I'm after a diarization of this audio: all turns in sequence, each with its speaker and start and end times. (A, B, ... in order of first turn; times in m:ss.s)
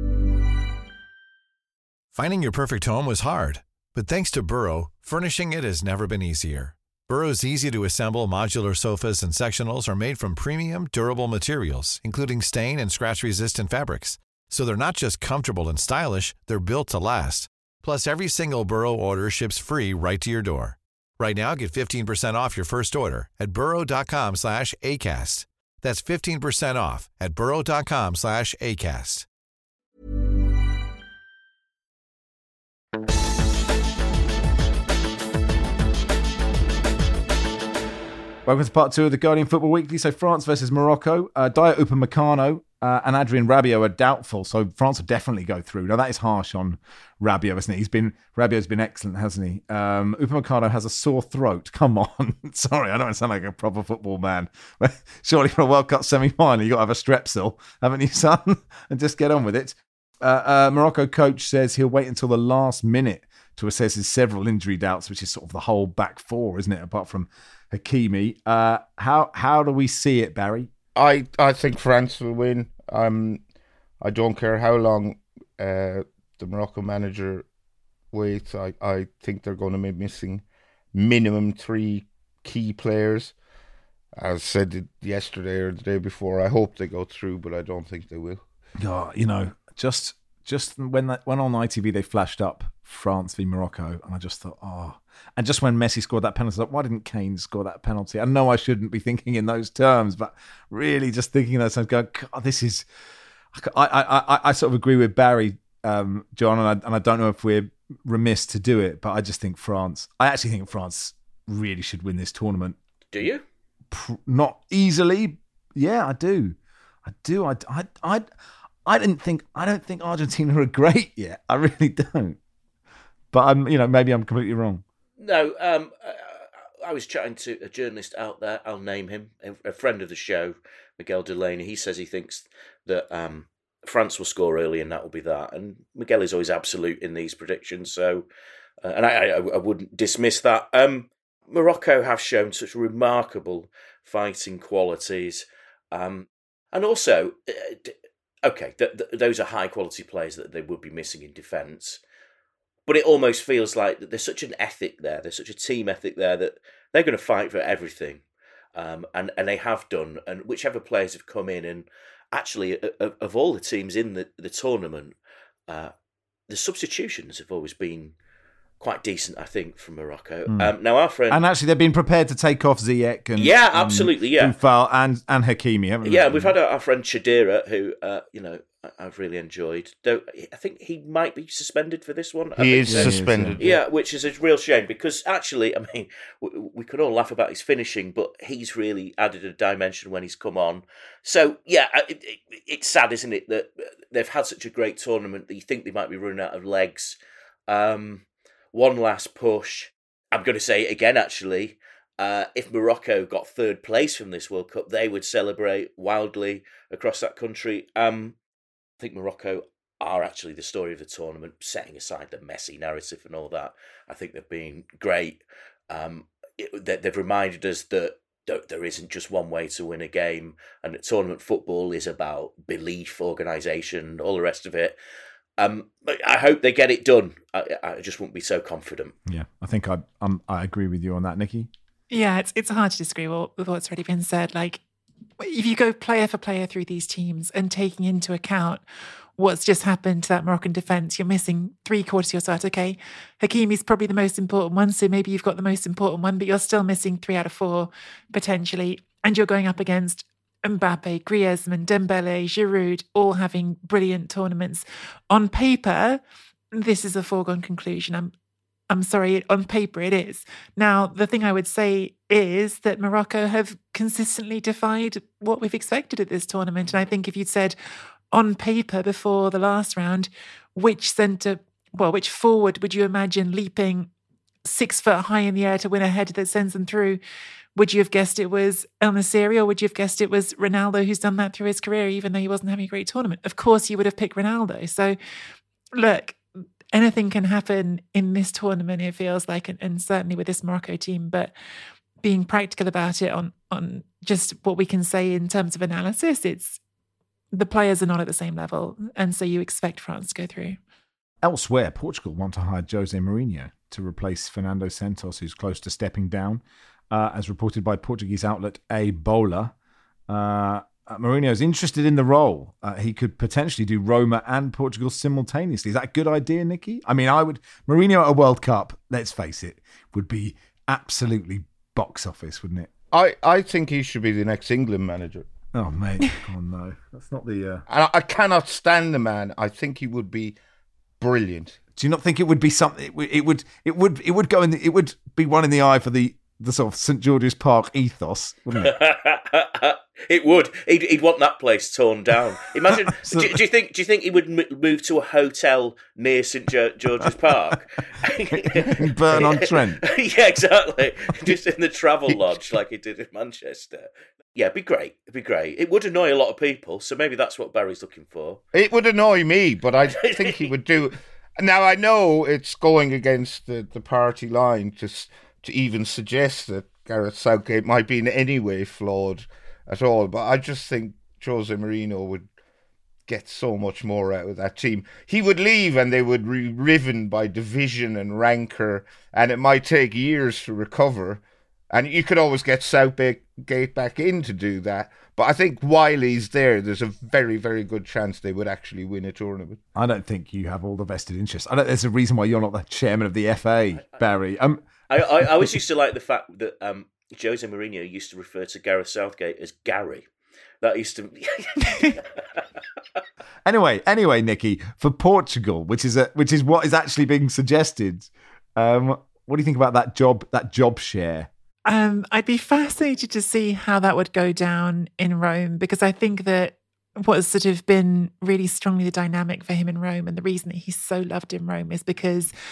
0:02.1-0:29.3 A
0:38.4-1:10.7 B
1:11.0-1:13.4 C
1:14.0-1:17.4 C
1:18.1-1:23.3 C
1:24.2-1:28.4 C
1:28.8-1:42.8 B
1:43.5-1:52.8 B
1:53.1-1:53.4 D
1:53.9-1:58.3 B
1:58.8-2:02.4 B
2:03.3-2:04.8 B
2:05.2-2:18.2 D
2:18.8-2:32.0 D
2:32.9-2:38.2 D
2:38.7-2:45.1 D
2:45.7-2:45.9 D
2:46.5-2:48.1 D
2:48.8-2:51.4 D
2:51.3-2:56.5 B
2:53.4-2:54.5 D
2:56.0-3:28.4 D
3:02.6-3:03.8 C
3:02.9-3:03.6 B
3:29.0-3:44.9 D
3:45.6-3:49.1 D
3:49.3-3:51.7 B
3:52.1-3:54.8 E
3:55.4-3:58.8 E
3:59.4-4:16.2 E
4:16.7-4:18.3 E
4:18.9-4:27.8 E
4:28.3-4:34.1 E
4:34.6-4:37.2 E
4:37.7-4:45.2 E
4:45.9-4:46.4 E
4:46.9-4:51.5 E
4:52.2-4:56.8 E
4:57.5-5:00.8 E
5:01.4-5:09.7 B
5:10.3-5:22.9 B
5:23.1-5:25.5 C
5:25.7-5:27.8 B
5:27.9-5:30.6 C
5:31.2-5:31.8 C
5:32.0-5:38.9 B
5:38.8-5:58.6 D
5:42.9-5:43.6 B
5:47.2-5:47.8 B
5:48.5-5:50.0 B
5:58.7-6:12.4 C
6:13.3-6:29.8 C
6:30.0-6:34.9 B
6:35.1-6:40.3 D
6:35.4-6:35.7 B
6:40.8-6:42.6 D
6:43.6-6:51.5 B
6:51.9-7:02.5 E